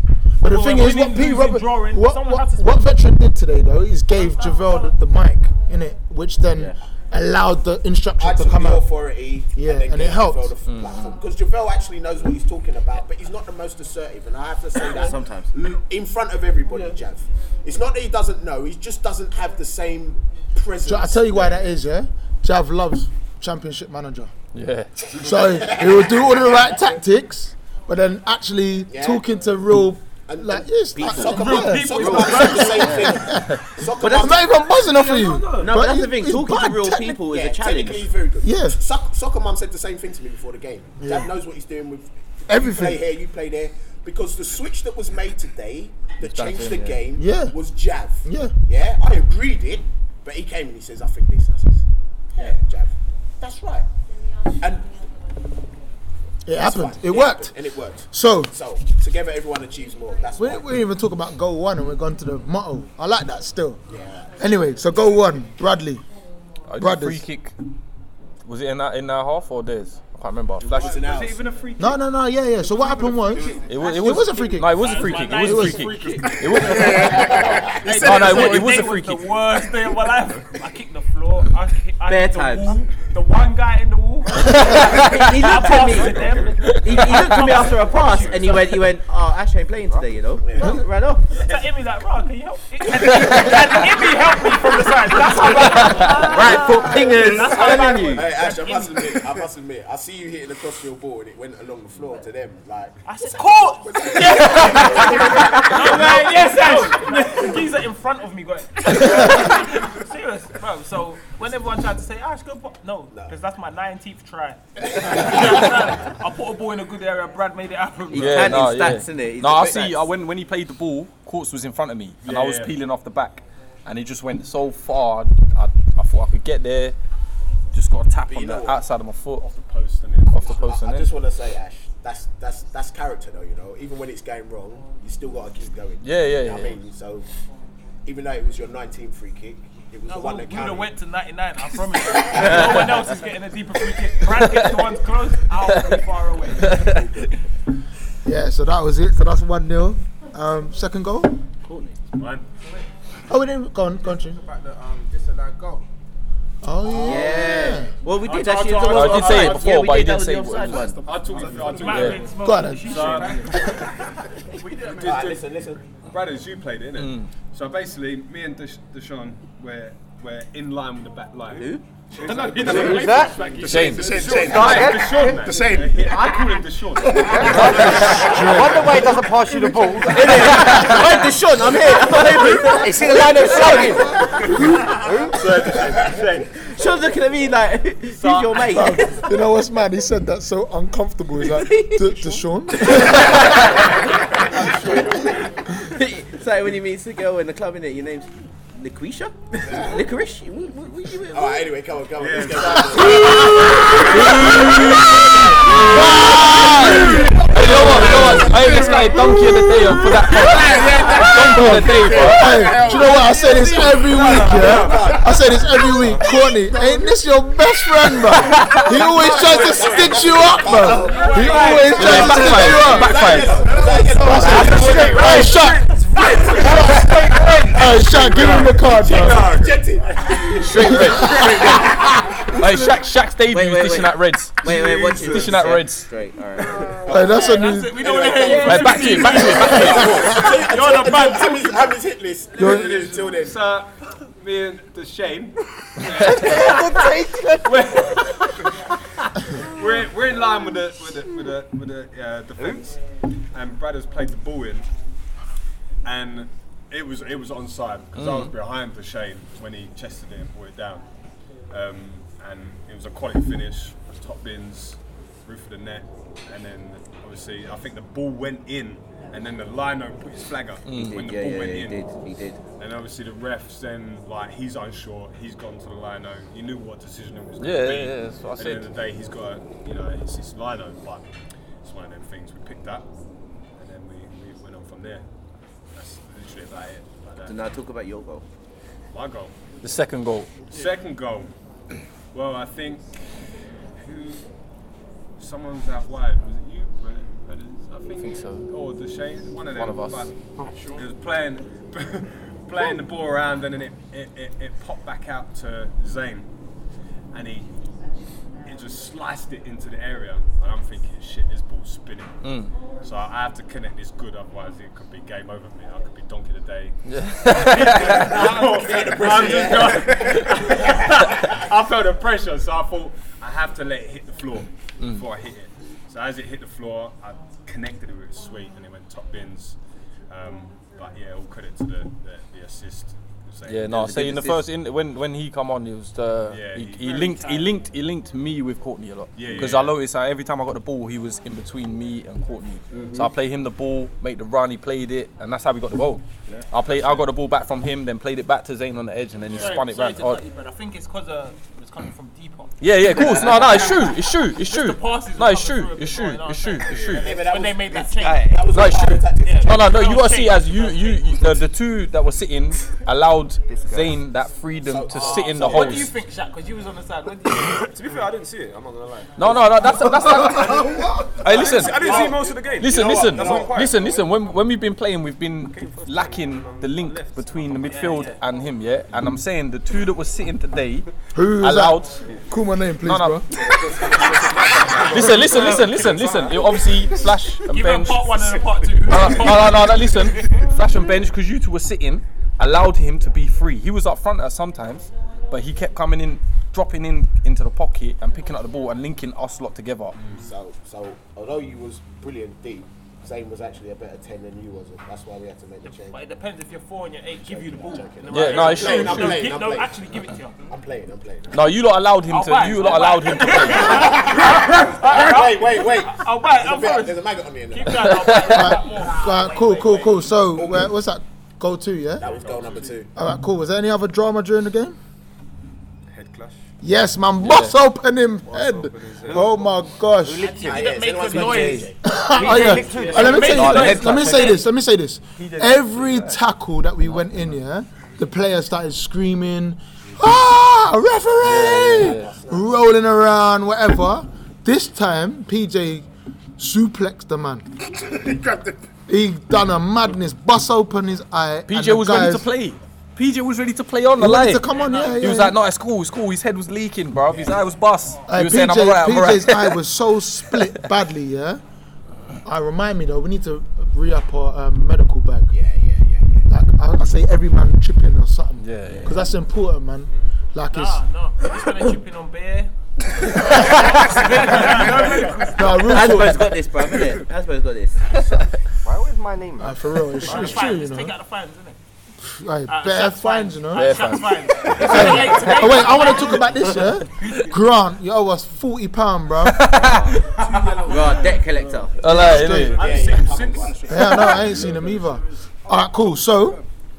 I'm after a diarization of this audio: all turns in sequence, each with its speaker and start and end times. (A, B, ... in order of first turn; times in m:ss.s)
0:00.4-0:02.8 A
0:00.4-0:08.9 B
0:04.2-0:04.9 A
0:06.5-0:06.8 C
0:08.2-0:21.7 D
0:09.6-0:10.5 B
0:10.7-0:11.2 E
0:14.8-0:15.5 C
0:20.8-0:24.3 B
0:24.5-0:24.9 E
0:25.0-0:26.9 D
0:25.1-0:37.2 B
0:28.9-0:29.2 D
0:30.3-0:34.7 D
0:30.9-0:32.7 C
0:31.2-0:33.2 A
0:33.3-0:33.6 E
0:34.0-0:34.5 C
0:34.9-0:35.7 A
0:35.6-0:38.1 C
0:37.2-0:53.9 D
0:38.4-0:38.8 B
0:41.0-0:41.3 B
0:42.5-0:43.0 B
0:46.2-0:47.0 E
0:47.2-0:47.6 B
0:48.2-0:48.6 B
0:54.6-0:54.9 D
0:56.4-0:57.6 B
0:56.6-1:00.8 D
0:58.1-0:58.5 B
1:00.4-1:03.8 B
1:03.9-1:04.4 D
1:04.4-1:06.0 B
1:06.7-1:07.6 E
1:06.8-1:07.2 B
1:08.4-1:11.0 E
1:10.6-1:11.6 D
1:10.7-1:12.0 F
1:11.8-1:15.9 B
1:12.8-1:13.7 G
1:13.4-1:13.6 D
1:13.6-1:19.3 E
1:13.8-1:28.8 A
1:16.2-1:18.8 G
1:22.1-1:22.8 C
1:24.5-1:25.3 E
1:24.5-1:31.3 C
1:26.9-1:27.2 E
1:30.4-1:30.8 D
1:31.3-1:39.4 A
1:31.3-1:31.6 F
1:33.1-1:33.4 E
1:35.3-1:38.3 C
1:37.2-1:46.2 D
1:43.0-1:58.8 A
1:45.8-1:47.4 F
1:49.0-1:49.3 E
1:54.9-1:55.5 D
1:58.1-2:00.1 C
1:58.1-2:07.0 E
2:02.2-2:02.7 F
2:07.7-2:09.4 E
2:08.3-2:08.8 D
2:09.4-2:10.6 F
2:10.3-2:11.1 E
2:10.4-2:17.3 D
2:16.0-2:16.8 E
2:18.0-2:20.9 D
2:20.1-2:27.0 A
2:22.3-2:22.9 C
2:24.3-2:24.8 E
2:25.6-2:26.0 E
2:26.6-2:27.1 E
2:26.7-2:27.3 D
2:28.2-2:31.4 B
2:31.6-2:32.0 C
2:32.2-2:32.4 F
2:33.3-2:34.4 B
2:34.0-2:35.8 G
2:36.6-2:37.9 B
2:36.8-2:37.8 D
2:37.0-2:41.0 C
2:38.2-2:39.9 F
2:38.8-2:41.0 E
2:41.0-2:42.3 F
2:41.2-2:42.0 G
2:41.3-2:41.8 D
2:41.6-2:43.9 A
2:41.9-2:42.2 E
2:42.4-2:43.0 B
2:42.9-2:43.6 F
2:44.6-2:45.3 A
2:44.7-2:45.5 F
2:45.0-2:45.8 D
2:46.0-2:58.9 F
2:47.0-2:47.3 E
2:51.5-2:51.8 C
2:52.2-2:56.3 G
2:52.4-2:53.2 H
2:52.6-2:53.5 I
2:53.6-2:54.2 E
2:54.5-2:55.4 I
2:57.1-3:00.4 I
2:57.2-2:58.2 G
2:57.5-2:58.4 E
2:57.8-2:58.9 B
3:00.1-3:04.6 C
3:00.3-3:01.3 E
3:02.7-3:05.7 I
3:04.5-3:05.0 B
3:05.3-3:06.7 F
3:06.6-3:09.2 C
3:08.1-3:08.7 F
3:08.7-3:13.5 B
3:11.4-3:21.7 C
3:14.6-3:15.2 G
3:19.6-3:20.0 D
3:21.3-3:28.6 D
3:22.2-3:24.5 F
3:23.0-3:24.8 B
3:23.0-3:32.7 E
3:25.6-3:26.4 B
3:26.1-3:37.2 G
3:27.6-3:28.6 B
3:31.2-3:43.3 B
3:32.9-3:35.4 D
3:38.2-3:47.7 G
3:38.5-3:38.8 E
3:38.7-3:45.5 D
3:40.9-3:42.0 A
3:41.1-3:42.2 F
3:41.9-3:43.6 E
3:44.2-3:45.9 B
3:44.7-3:45.1 F
3:44.9-3:45.6 H
3:46.0-3:46.8 A
3:46.2-3:47.3 D
3:46.2-3:48.8 F
3:47.6-3:49.6 B
3:48.2-3:52.8 D
3:48.2-3:48.5 G
3:49.1-3:52.1 G
3:50.6-3:52.0 E
3:50.8-3:51.7 B
3:52.5-3:56.1 E
3:53.5-3:56.9 C
3:57.1-4:02.0 A
3:57.1-3:58.0 B
3:58.0-3:59.8 F
3:58.0-4:03.6 D
3:58.5-4:00.4 E
3:59.6-4:00.2 B
4:00.4-4:01.0 F
4:02.6-4:07.1 F
4:02.6-4:03.1 B
4:06.2-4:07.9 I
4:07.6-4:08.7 F
4:09.5-4:13.0 F
4:13.5-4:14.9 F
4:16.0-4:21.0 F
4:18.2-4:18.5 E
4:21.7-4:32.0 F
4:30.9-4:31.2 E
4:31.0-4:32.6 C
4:32.8-4:41.3 F
4:37.6-4:38.9 E
4:41.8-4:43.1 F
4:43.8-4:45.3 F
4:45.9-4:47.6 F
4:47.4-4:48.4 C
4:49.1-4:49.5 F
4:49.8-4:50.6 E
4:50.7-4:51.5 F
4:52.3-4:53.2 F
4:54.0-4:54.5 F
4:55.4-5:06.5 F
4:58.2-4:58.7 E
4:59.7-5:00.3 E
5:00.6-5:00.8 I
5:07.3-5:07.7 F
5:08.7-5:12.4 F
5:12.4-5:12.7 E
5:13.0-5:29.8 F
5:17.1-5:18.4 E
5:18.0-5:21.5 D
5:25.0-5:25.2 E
5:30.3-5:34.2 F
5:33.7-5:50.4 E
5:33.9-5:34.6 C
5:36.5-5:37.3 F
5:37.0-5:37.8 A
5:39.4-5:40.0 F
5:43.0-5:43.2 D
5:46.8-5:47.2 F
5:49.5-5:58.7 A
5:52.8-5:57.3 E
5:56.9-5:57.3 F
5:57.2-5:59.9 D
5:58.2-5:58.6 I
5:58.7-6:06.1 E
5:59.3-6:01.7 A
6:03.7-6:04.2 I
6:04.8-6:06.1 D
6:05.4-6:07.9 A
6:07.8-6:14.2 H
6:09.2-6:14.4 G
6:09.4-6:12.2 E
6:11.6-6:12.7 A
6:12.8-6:21.1 E
6:15.7-6:18.0 H
6:17.8-6:18.4 A
6:21.3-6:23.5 B
6:21.6-6:22.2 E
6:23.0-6:23.5 E
6:23.6-6:27.3 G
6:24.1-6:24.4 D
6:24.1-6:26.5 A
6:24.9-6:26.4 H
6:25.1-6:28.4 E
6:27.6-6:30.7 A
6:29.1-6:40.2 E
6:40.3-6:46.3 D
6:45.8-6:50.7 A
6:47.4-6:50.2 D
6:48.3-6:49.6 E
6:50.7-6:51.7 D
6:51.5-6:54.1 E
6:52.3-7:00.3 A
6:53.7-6:58.2 D
6:58.0-6:58.7 E
6:58.5-7:02.2 B
7:00.5-7:00.9 D
7:02.2-7:03.1 D
7:02.3-7:02.9 F
7:03.1-7:05.0 B
7:06.2-7:06.5 H
7:06.8-7:10.5 B
7:07.4-7:07.8 E
7:08.6-7:09.4 H
7:09.1-7:09.7 G
7:10.2-7:11.0 I
7:10.4-7:14.6 A
7:10.6-7:12.0 D
7:11.3-7:11.9 E
7:12.0-7:26.1 B
7:12.3-7:13.6 I
7:12.5-7:13.4 D
7:13.3-7:14.6 E
7:15.4-7:16.4 E
7:21.4-7:22.4 E
7:21.9-7:22.7 D
7:26.6-7:27.7 B
7:27.9-7:28.8 G
7:29.1-7:32.5 B
7:31.7-7:39.8 E
7:34.2-7:35.6 B
7:34.6-7:35.4 A
7:38.3-7:41.6 B
7:42.4-7:45.5 B
7:45.5-7:46.5 D
7:46.5-7:51.0 B
7:48.6-7:49.2 E
7:50.7-7:52.7 A
7:53.3-7:56.1 A
7:53.5-7:53.8 E
7:55.5-7:56.5 B
7:55.8-7:58.2 C
7:58.8-8:00.6 I
7:59.6-8:01.2 B
8:00.2-8:01.8 A
8:02.2-8:04.1 B
8:02.7-8:07.5 A
8:03.7-8:04.9 E
8:04.7-8:09.6 B
8:09.4-8:10.3 E
8:09.7-8:10.2 C
8:10.4-8:11.4 D
8:10.5-8:11.4 G
8:10.8-8:12.0 C
8:12.0-8:13.1 E
8:12.0-8:12.8 B
8:12.6-8:14.6 F
8:12.7-8:14.4 D
8:13.9-8:16.6 B
8:14.3-8:15.0 G